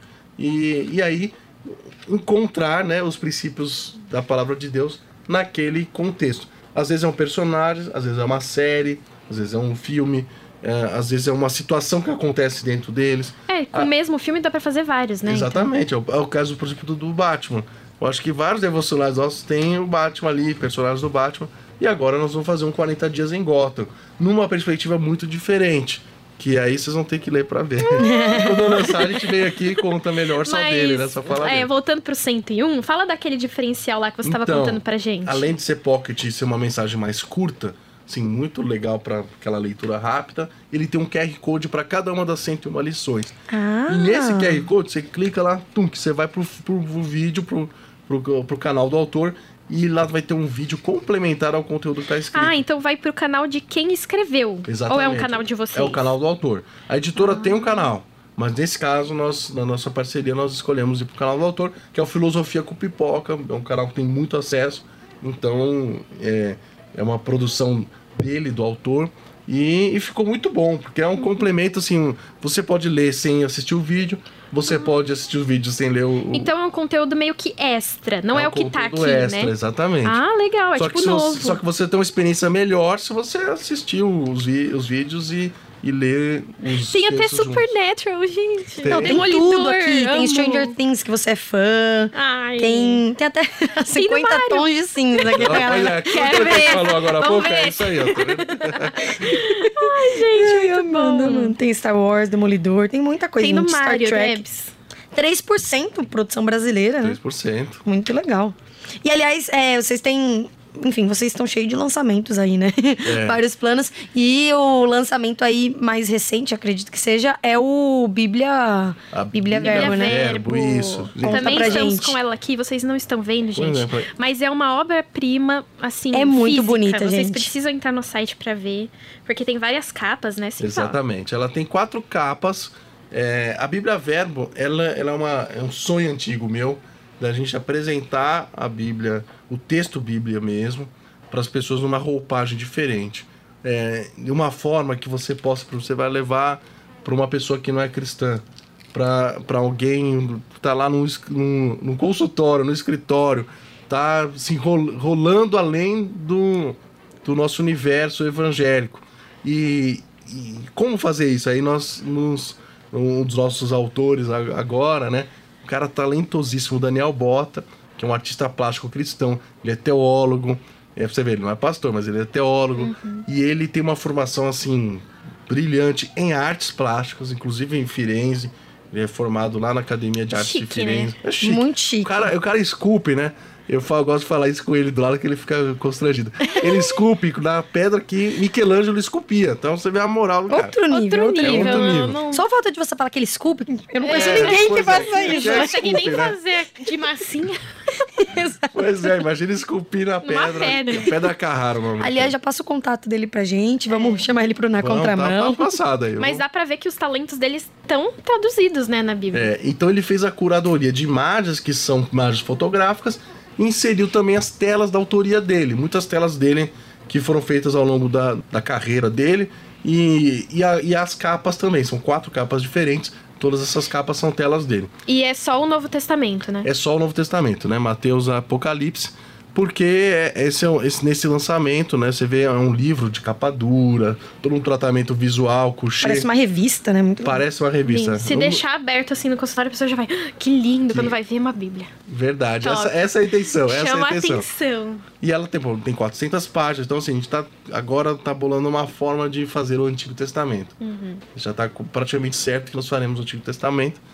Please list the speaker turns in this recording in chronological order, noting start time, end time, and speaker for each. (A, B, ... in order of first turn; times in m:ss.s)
0:00.4-0:13.9 A
0:13.5-0:15.7 B
0:15.2-0:31.7 A
0:27.8-0:29.3 B
0:28.0-0:28.8 C
0:30.4-0:35.5 B
0:34.2-0:43.3 A
0:43.5-0:44.7 C
0:43.9-0:52.6 A
0:52.3-0:56.1 B
0:54.6-1:16.5 A
0:57.2-0:57.9 B
1:16.3-1:21.6 B
1:18.3-1:20.2 A
1:20.7-1:27.7 A
1:26.8-1:30.7 B
1:28.8-1:29.2 A
1:28.8-1:36.9 C
1:32.1-1:33.0 B
1:33.9-1:41.5 B
1:35.4-1:39.4 A
1:39.6-1:44.4 C
1:43.4-1:44.7 B
1:45.1-1:47.2 C
1:47.0-1:47.8 A
1:47.8-2:00.3 C
1:53.0-1:53.4 A
1:59.1-2:01.9 A
1:59.6-2:11.0 B
2:01.2-2:02.2 C
2:03.6-2:04.1 A
2:06.1-2:07.5 C
2:10.6-3:10.8 A
2:52.8-2:53.2 B
3:00.3-3:01.1 B
3:01.4-3:02.1 C
3:10.5-3:15.8 C
3:10.9-3:12.4 B
3:11.4-3:12.2 A
3:14.0-3:17.7 B
3:14.1-3:16.4 A
3:18.2-3:19.1 C
3:18.7-3:22.3 A
3:20.2-3:21.2 B
3:22.0-3:25.8 C
3:23.9-3:24.2 B
3:24.8-3:26.4 A
3:26.2-3:29.5 B
3:29.3-3:44.9 A
3:45.1-3:46.7 B
3:46.6-3:56.3 A
3:56.0-3:57.4 C
3:57.2-3:58.6 A
3:57.9-4:01.9 B
4:00.9-4:01.1 A
4:02.1-4:04.5 A
4:02.6-4:05.0 B
4:05.2-4:10.8 A
4:10.8-4:11.2 B
4:11.3-4:14.0 A